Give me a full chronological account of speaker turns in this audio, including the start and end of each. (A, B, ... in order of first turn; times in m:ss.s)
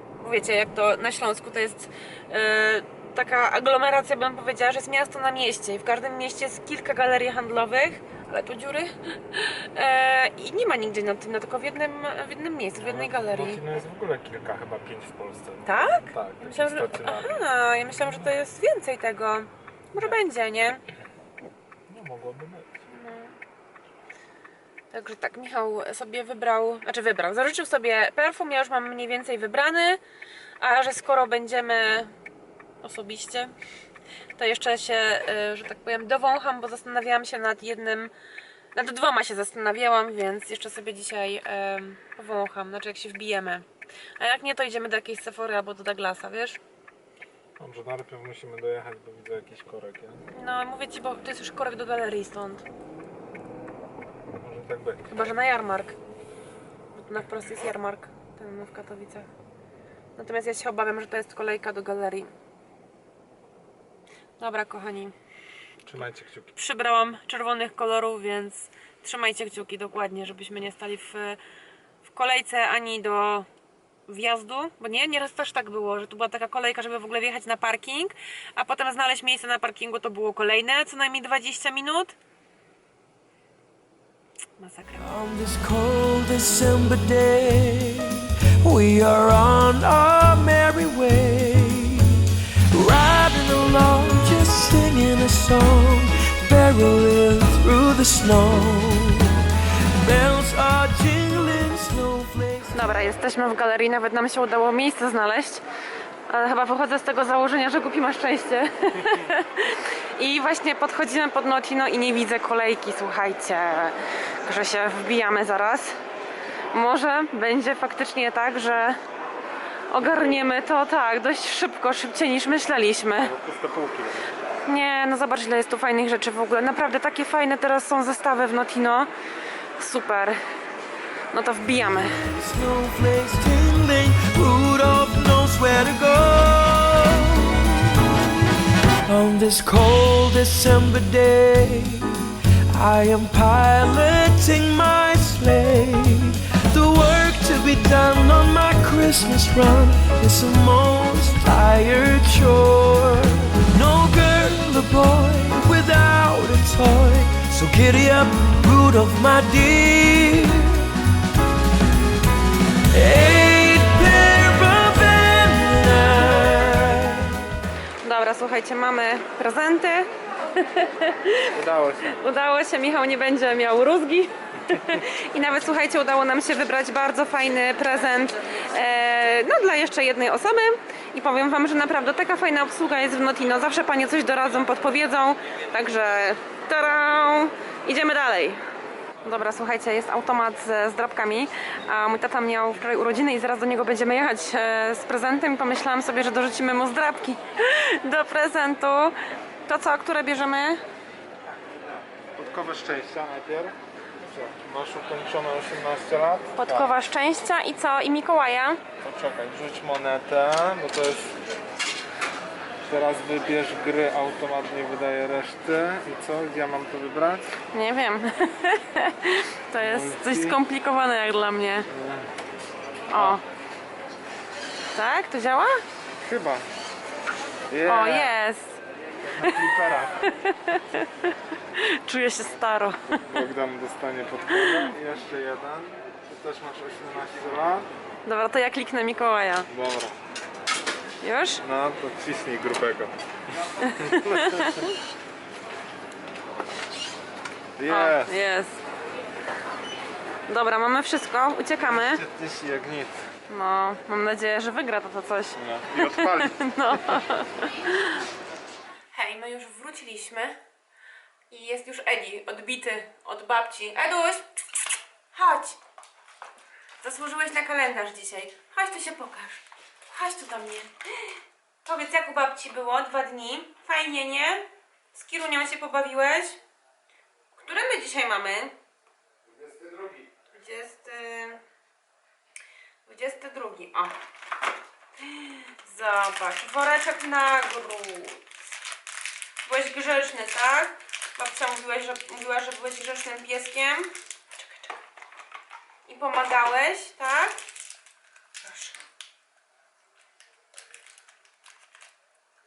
0:00.2-0:13.6 A
0:12.8-0:18.4 B
0:15.6-0:20.8 A
0:21.9-0:22.7 B
0:22.9-0:23.4 A
0:24.9-0:30.0 A
0:30.6-0:32.1 A
0:32.8-0:33.5 A
0:34.4-0:38.1 A
0:38.8-0:43.7 A
0:44.2-0:46.6 A
0:47.6-0:50.2 B
0:50.3-0:52.7 A
0:54.3-0:55.1 B
0:55.1-0:56.0 A
0:56.9-0:59.3 A
1:00.2-1:02.3 A
1:04.4-1:05.2 A
1:05.8-1:06.5 B
1:06.0-1:11.4 A
1:12.0-1:13.5 A
1:14.1-1:22.2 A
1:24.6-1:25.1 A
1:25.0-1:39.4 C
1:40.0-1:43.1 C
1:42.7-1:45.6 A
1:46.3-1:56.0 A
1:56.7-1:59.0 A
1:59.9-2:03.3 A
2:00.0-2:00.4 B
2:03.2-2:04.3 B
2:04.7-2:09.1 A
2:09.8-2:10.4 A
2:11.3-2:12.2 A
2:12.2-2:18.1 C
2:19.1-2:40.9 C
2:42.9-2:47.5 C
2:48.0-2:51.5 A
2:51.5-2:52.2 B
2:52.0-3:08.6 A
2:54.7-2:55.0 B
3:09.2-3:20.8 A
3:22.4-3:27.0 B
3:26.6-3:28.8 A
3:29.0-3:31.4 B
3:32.8-3:37.6 B
3:37.7-3:41.9 A
3:39.8-3:40.6 B
3:41.9-3:42.3 B
3:43.1-3:43.4 A
3:43.1-3:43.4 B
3:44.9-3:45.8 A
3:46.2-3:46.6 B
3:47.7-3:48.4 B
3:47.9-3:48.8 A
3:49.2-3:50.2 B
3:50.3-3:53.3 A
3:53.1-3:57.9 B
3:54.5-3:54.9 A
3:58.3-3:59.7 A
3:59.7-4:00.2 B
4:01.2-4:01.6 A
4:01.6-4:03.2 B
4:03.8-4:04.9 A
4:04.0-4:04.9 B
4:07.8-4:08.4 B
4:07.9-4:08.8 A
4:10.5-4:12.2 A
4:11.8-4:13.3 B
4:13.5-4:18.3 A
4:15.6-4:17.2 B
4:19.1-4:20.6 A
4:21.5-4:24.4 A
4:25.3-4:25.8 A
4:27.0-4:36.6 A
4:37.6-4:38.8 A
4:39.6-4:40.2 B
4:40.5-4:41.6 A
4:43.1-4:44.2 A
4:45.2-4:48.4 A
4:49.6-4:55.0 A
4:56.1-4:57.6 A
4:58.6-4:59.0 A